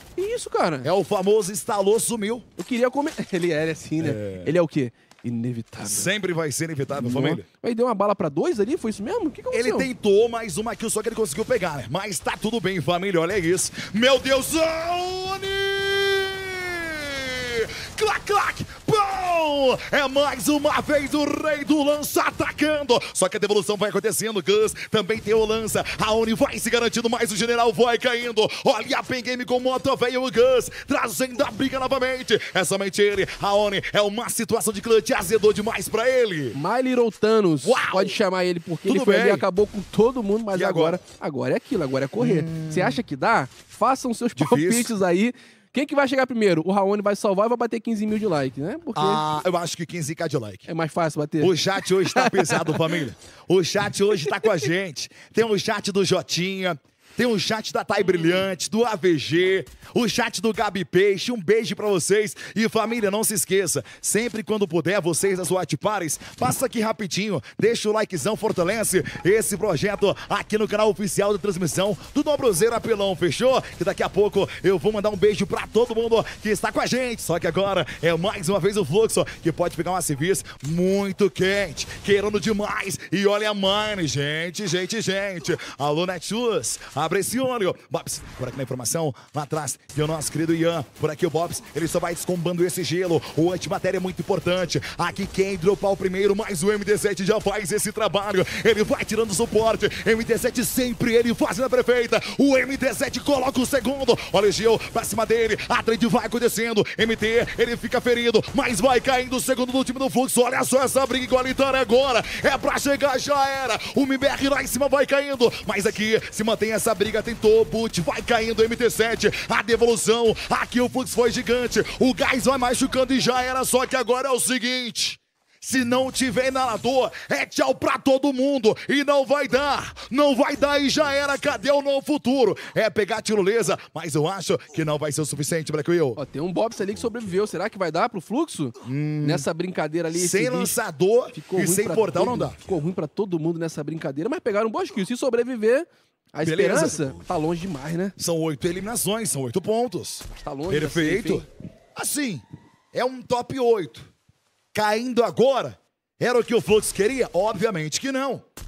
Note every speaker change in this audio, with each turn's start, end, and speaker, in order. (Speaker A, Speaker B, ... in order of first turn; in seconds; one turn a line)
Speaker A: 0.2-0.9
Speaker B: 0.8-2.5
Speaker A: 2.6-6.1
Speaker B: 4.0-4.5
Speaker B: 5.8-7.5
Speaker A: 6.9-9.9
Speaker B: 9.5-36.6
Speaker A: 36.5-49.2
Speaker B: 37.6-38.2
Speaker B: 38.9-39.5
Speaker B: 40.5-41.0
Speaker B: 42.2-43.0
Speaker B: 44.4-44.9
Speaker B: 49.0-50.7
Speaker A: 50.7-53.0
Speaker B: 51.4-136.2
Speaker A: 136.2-140.8
Speaker B: 138.8-139.5
Speaker B: 140.1-142.6
Speaker A: 141.3-148.2
Speaker B: 146.4-147.2
Speaker B: 148.2-154.1
Speaker A: 150.3-151.5
Speaker B: 154.7-158.4